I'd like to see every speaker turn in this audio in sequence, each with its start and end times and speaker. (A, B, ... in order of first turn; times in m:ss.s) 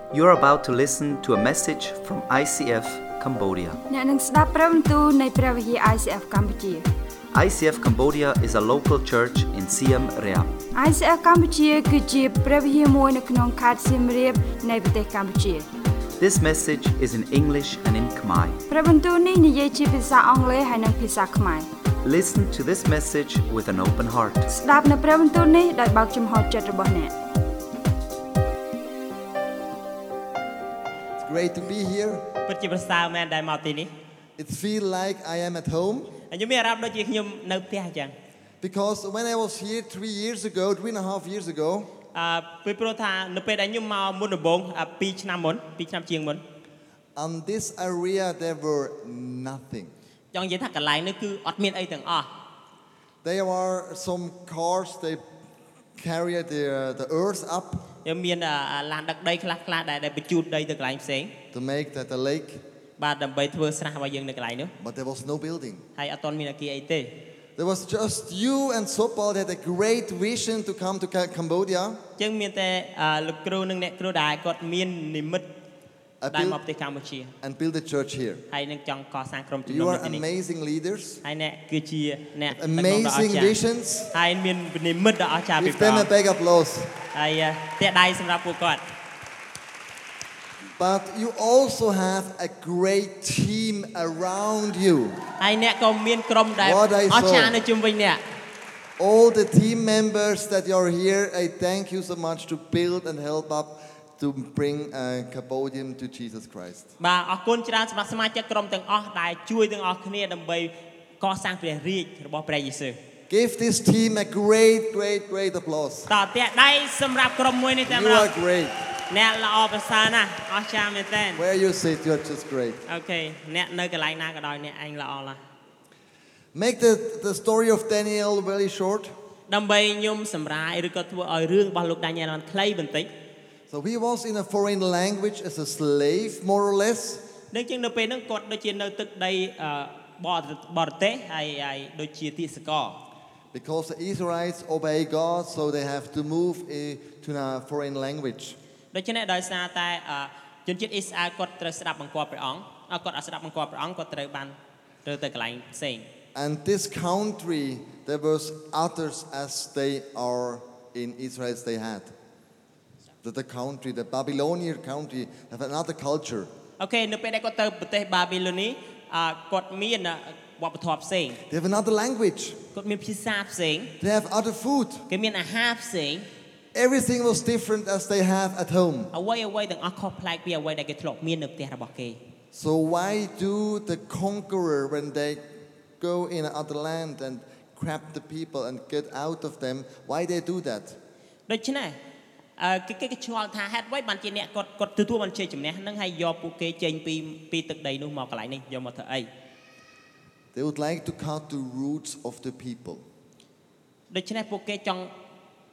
0:00.1-0:03.8 A
0:03.9-0:06.8 B
0:07.3-0:10.6 A
0:10.8-0:15.7 B
0:16.2-0:18.6 A
0:18.7-0:21.7 B
0:22.0-0:24.5 A
0:24.5-0:27.1 B
0:31.2-0:32.3 C
0:32.4-0:33.9 D
0:34.4-0:36.1 C
0:36.3-0:38.2 D
0:38.6-0:41.9 C
0:42.1-0:46.4 D
0:47.2-0:49.9 C
0:50.3-0:52.3 D
0:53.2-0:55.2 C
0:56.0-0:57.8 C
0:58.0-1:01.3 D
1:01.5-1:02.6 C
1:03.0-1:04.7 D
1:04.8-1:05.8 C
1:06.0-1:07.2 D
1:07.6-1:12.0 C
1:12.2-1:15.5 D
1:16.2-1:16.6 C
1:16.3-1:17.3 D
1:17.4-1:18.4 C
1:18.5-1:20.2 D
1:19.7-1:21.2 C
1:21.2-1:23.6 D
1:22.5-1:24.1 C
1:24.1-1:26.1 D
1:25.6-1:27.0 C
1:27.1-1:28.8 D
1:30.8-1:35.2 C
1:35.4-1:38.2 D
1:36.6-1:37.6 C
1:39.0-1:46.9 C
1:47.0-1:53.0 D
1:53.3-1:56.1 C
1:56.1-1:58.3 D
1:57.9-1:58.8 C
1:59.1-2:01.4 D
2:01.4-2:02.8 C
2:02.9-2:05.4 D
2:06.5-2:09.1 C
2:09.5-2:13.1 D
2:13.7-2:17.2 C
2:17.5-2:23.0 D
2:23.5-2:28.6 C
2:28.9-2:36.1 D
2:36.4-2:42.1 C
2:43.2-2:46.5 C
2:46.8-2:51.4 D
2:51.5-2:52.6 C
2:52.8-2:53.9 D
2:54.0-2:55.1 C
2:55.1-2:56.3 D
2:56.7-2:59.1 C
2:59.1-3:02.2 D
3:02.5-3:05.4 C
3:06.0-3:11.0 C
3:11.5-3:12.0 D
3:12.6-3:19.3 D
3:20.5-3:23.0 C
3:24.1-3:25.1 D